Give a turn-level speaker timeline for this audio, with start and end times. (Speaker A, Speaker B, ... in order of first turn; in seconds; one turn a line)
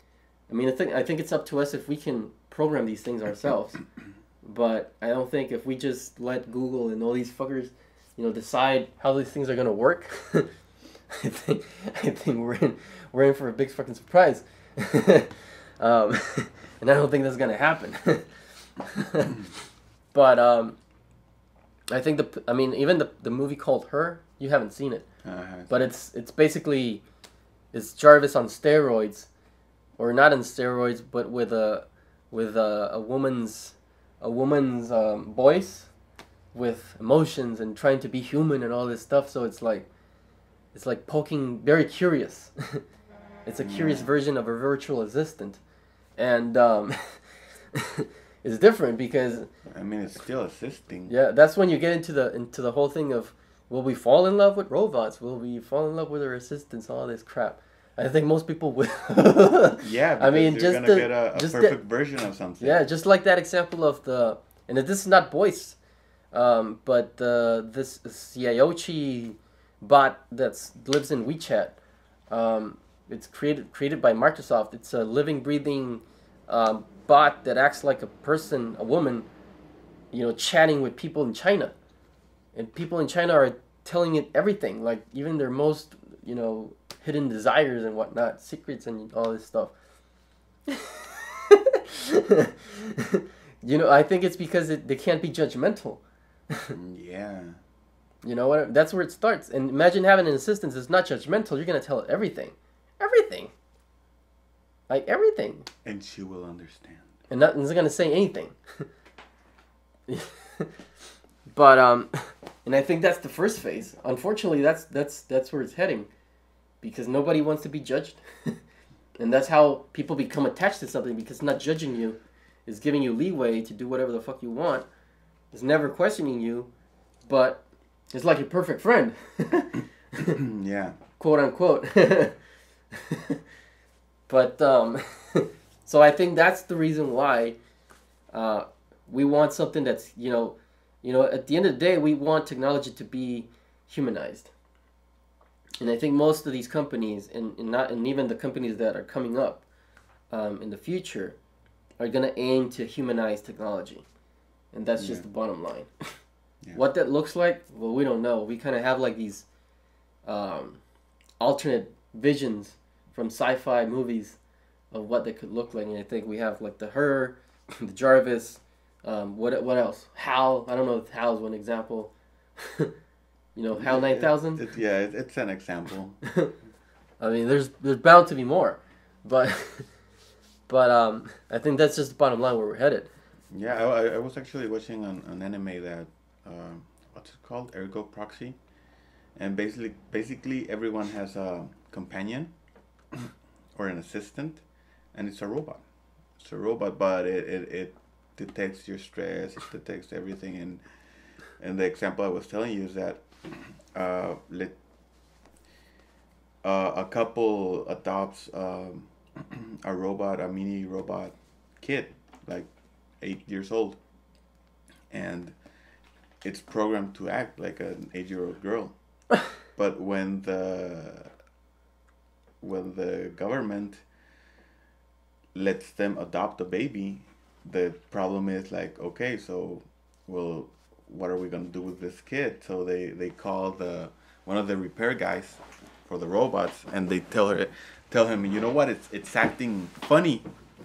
Speaker A: 0.5-3.8
Speaker A: 4.4-10.5
Speaker A: 11.1-19.5
Speaker A: 20.1-20.8
Speaker A: 21.9-25.0
Speaker B: 25.2-25.9
Speaker A: 25.7-27.0
Speaker A: 27.7-29.3
Speaker A: 30.0-35.9
Speaker A: 36.5-39.9
Speaker A: 40.7-42.8
Speaker A: 43.5-45.6
Speaker B: 43.6-44.1
Speaker A: 46.2-49.5
Speaker B: 49.7-51.1
Speaker A: 51.1-61.8
Speaker B: 59.8-62.8
Speaker A: 62.6-65.8
Speaker A: 66.3-71.8
Speaker A: 72.3-79.3
Speaker A: 80.1-81.7
Speaker A: 82.5-89.7
Speaker A: 90.7-96.7
Speaker B: 96.7-97.6
Speaker A: 98.2-103.5
Speaker A: 104.9-105.7
Speaker B: 105.8-107.1
Speaker A: 107.3-108.6
Speaker A: 110.1-110.7
Speaker A: 111.5-116.1
Speaker A: 116.8-118.6
Speaker A: 119.2-124.9
Speaker A: 125.5-126.7
Speaker A: 127.3-130.4
Speaker B: 130.3-131.0
Speaker A: 131.2-132.4
Speaker A: 132.9-133.4
Speaker A: 134.3-137.6
Speaker A: 138.3-144.5
Speaker A: 145.8-149.6
Speaker A: 150.3-151.4
Speaker A: 152.0-154.1
Speaker A: 154.7-155.9
Speaker B: 155.0-155.2
Speaker A: 156.7-159.5
Speaker A: 160.2-160.8
Speaker A: 161.4-164.4
Speaker A: 164.9-172.9
Speaker A: 173.5-174.6
Speaker B: 173.8-176.2
Speaker A: 177.2-179.9
Speaker A: 180.7-183.1
Speaker B: 183.5-188.6
Speaker B: 189.4-192.5
Speaker B: 193.8-194.6
Speaker B: 195.1-195.8
Speaker B: 196.4-200.8
Speaker B: 201.6-204.8
Speaker B: 206.6-212.7
Speaker B: 213.2-214.0
Speaker B: 215.1-215.5
Speaker B: 216.4-218.9
Speaker B: 219.7-221.3
Speaker B: 222.6-224.0
Speaker B: 225.5-240.5